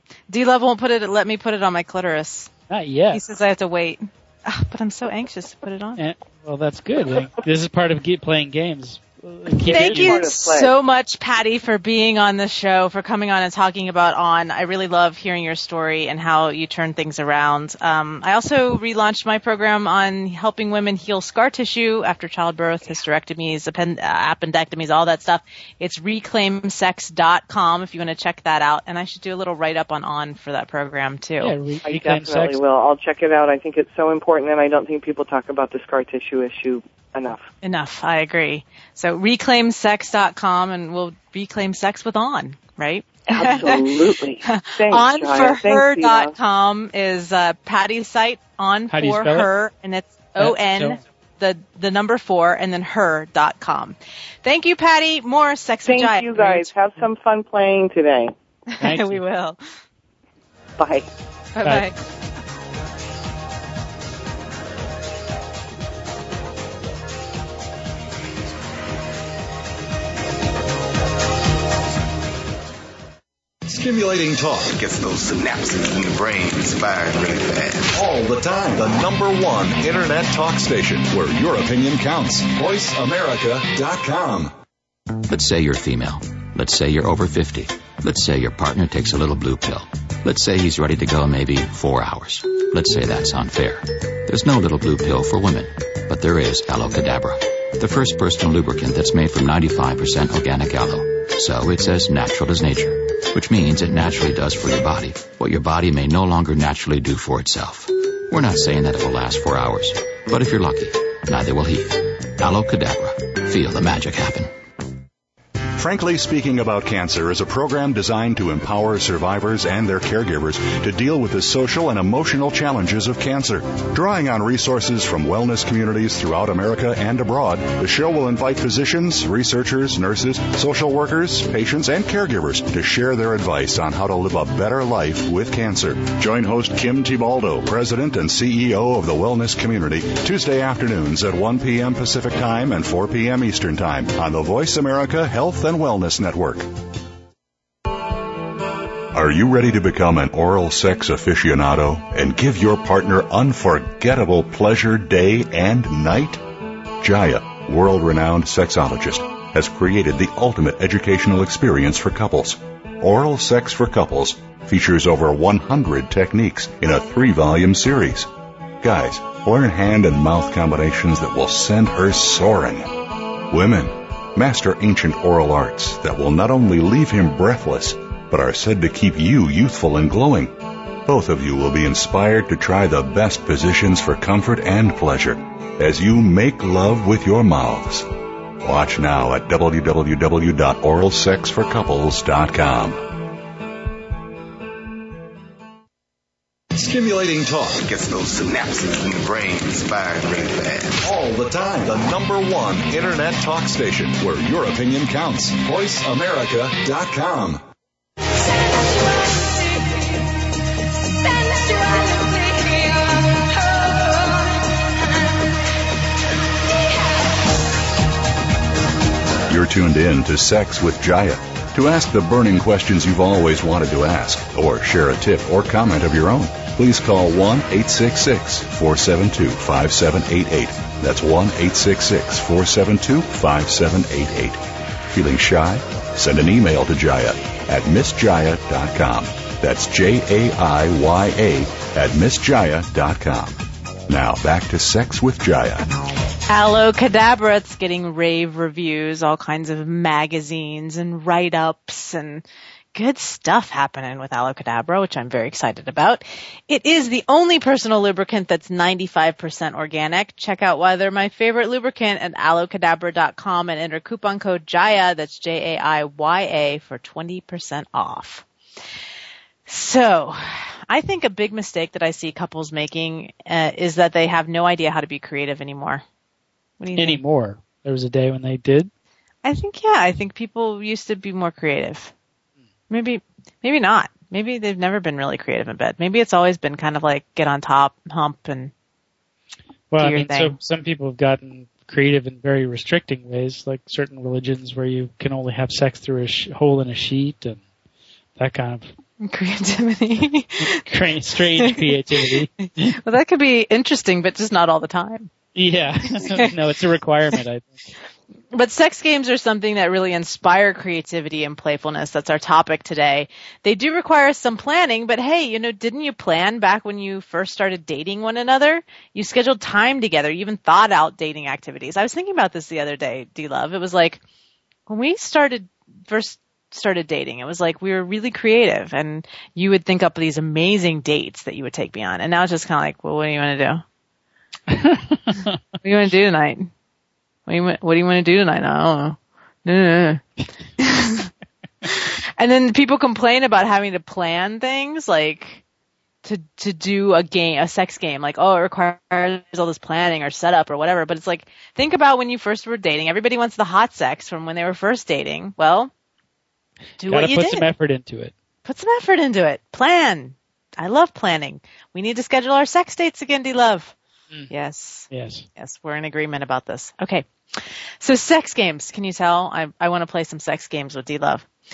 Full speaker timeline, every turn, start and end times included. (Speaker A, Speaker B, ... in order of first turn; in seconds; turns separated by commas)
Speaker A: 0.3-2.5, Speaker B: 2.7-3.2, Speaker A: 3.1-6.0, Speaker B: 6.0-10.2, Speaker A: 9.6-31.6, Speaker C: 9.7-10.7, Speaker B: 31.4-32.6, Speaker C: 31.8-37.4, Speaker A: 37.6-56.7, Speaker C: 43.3-46.3, Speaker B: 48.9-49.5, Speaker B: 50.4-51.0, Speaker C: 55.8-58.3, Speaker A: 58.7-59.6, Speaker B: 58.8-59.2, Speaker C: 60.8-61.1, Speaker A: 61.5-61.9, Speaker B: 61.6-61.9, Speaker D: 73.6-74.7, Speaker E: 74.7-78.0, Speaker D: 77.9-84.5, Speaker F: 85.3-114.6, Speaker D: 115.8-146.7, Speaker D: 149.1-156.4, Speaker D: 157.0-168.3, Speaker D: 168.8-172.9, Speaker D: 173.5-188.1, Speaker D: 188.6-193.1, Speaker D: 196.7-197.8, Speaker E: 197.8-201.0, Speaker D: 201.0-207.6, Speaker D: 219.5-245.9, Speaker A: 246.5-268.4, Speaker A: 269.6-276.0, Speaker A: 276.8-277.2, Speaker B: 276.9-278.9, Speaker A: 279.4-282.1, Speaker A: 282.9-288.7, Speaker B: 289.9-297.6, Speaker A: 290.0-290.6, Speaker B: 298.4-298.9, Speaker A: 299.2-300.8, Speaker B: 300.6-303.0, Speaker A: 301.5-305.3, Speaker B: 305.5-307.8, Speaker A: 306.2-306.5, Speaker A: 308.5-324.2, Speaker A: 324.9-333.8, Speaker B: 334.7-335.6, Speaker A: 335.8-336.7, Speaker A: 337.5-340.2, Speaker A: 340.8-341.3, Speaker A: 341.8-345.6, Speaker A: 346.2-355.9, Speaker A: 357.0-357.6, Speaker B: 357.0-358.3, Speaker A: 358.6-363.9, Speaker A: 364.5-371.5, Speaker B: 365.1-365.4